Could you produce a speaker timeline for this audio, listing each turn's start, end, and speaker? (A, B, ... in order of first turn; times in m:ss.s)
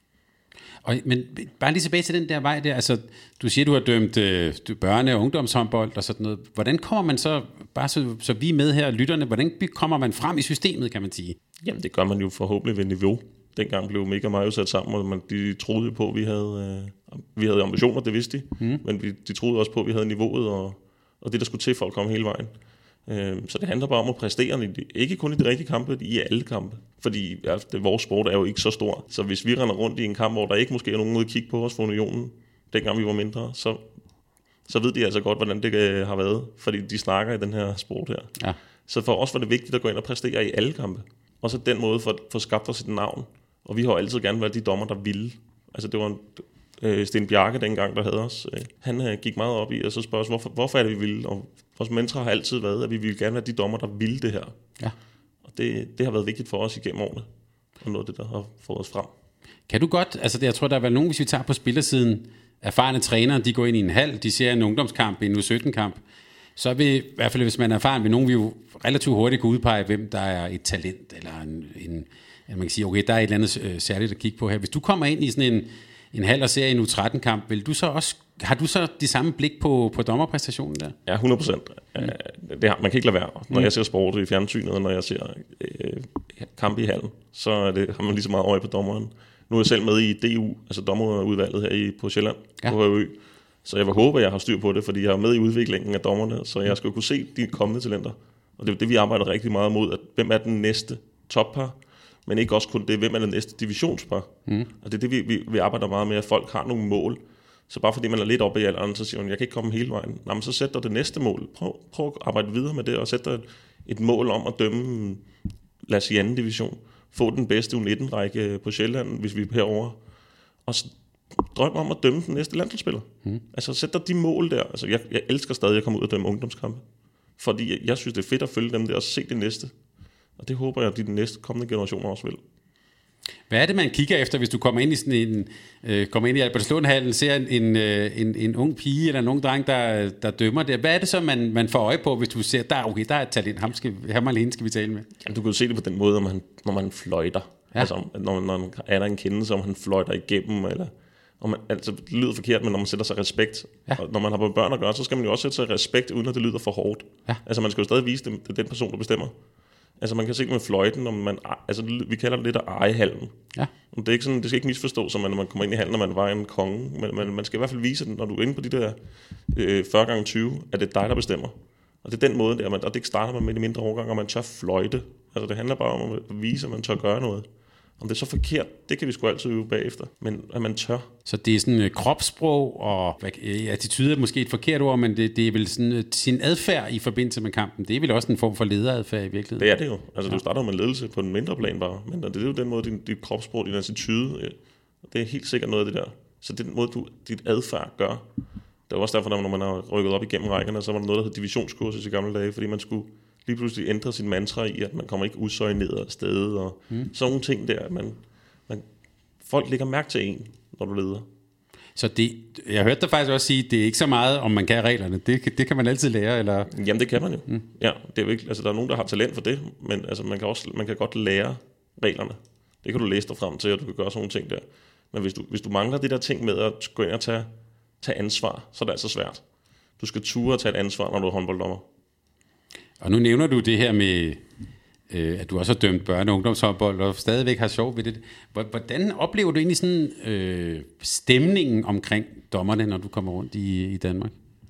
0:00.8-0:11.4 A
0:11.6-0:22.5 B
0:23.1-0:33.8 B
0:34.6-0:38.3 B
0:38.9-0:54.6 B
0:55.4-0:57.3 B
0:57.8-0:59.1 B
0:59.7-1:06.0 A
1:06.6-1:21.0 A
1:21.1-1:55.2 B
1:55.8-2:00.0 B
2:00.6-2:06.8 B
2:07.4-2:09.7 B
2:10.4-2:12.4 B
2:13.5-2:25.1 A
2:25.2-2:39.3 B
2:40.0-2:43.4 B
2:43.9-2:57.5 B
2:58.0-3:01.1 B
3:01.2-3:09.7 A
3:09.6-3:18.2 B
3:18.9-3:28.8 B
3:29.4-3:31.2 B
3:32.0-3:36.7 A
3:36.7-3:47.5 B
3:48.0-3:49.4 B
3:50.0-3:51.8 B
3:53.0-3:54.4 A
3:55.1-4:04.3 A